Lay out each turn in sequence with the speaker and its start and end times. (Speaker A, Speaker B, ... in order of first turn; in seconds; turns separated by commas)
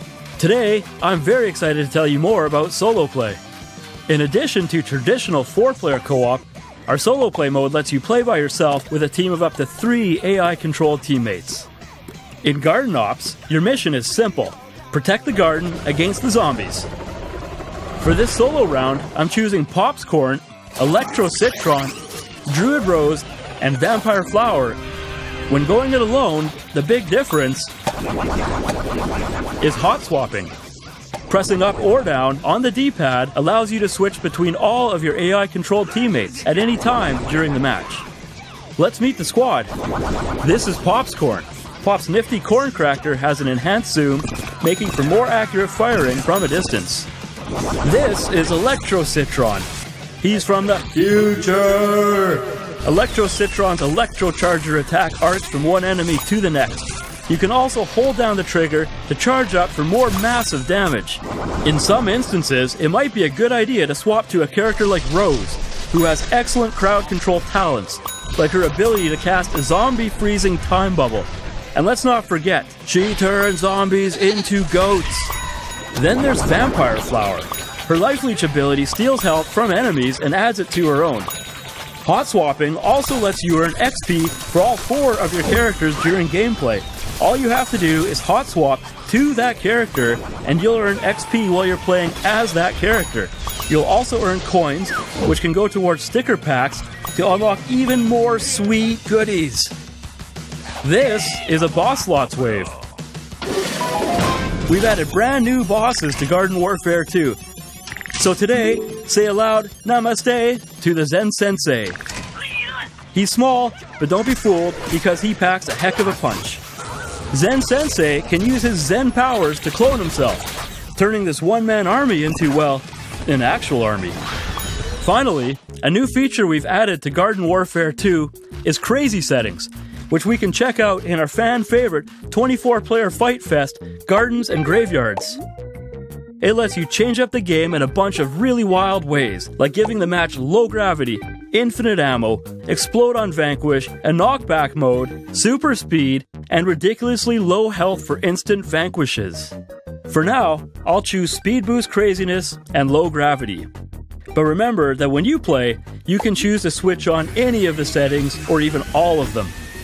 Speaker A: 0.4-3.4, Speaker A: 4.1-11.7, Speaker A: 12.4-16.9, Speaker A: 18.0-22.0, Speaker A: 22.5-24.8, Speaker A: 25.5-27.7, Speaker A: 29.6-30.5, Speaker A: 31.3-38.1, Speaker A: 38.8-39.7, Speaker A: 40.4-47.1, Speaker A: 47.8-49.7, Speaker A: 50.2-75.3, Speaker A: 75.9-81.3, Speaker A: 82.0-99.7, Speaker A: 100.8-102.8, Speaker A: 104.7-107.4, Speaker A: 108.2-112.0, Speaker A: 113.1-116.6, Speaker A: 117.3-124.2, Speaker A: 125.0-135.4, Speaker A: 136.4-149.6, Speaker A: 150.1-153.7, Speaker A: 154.3-159.6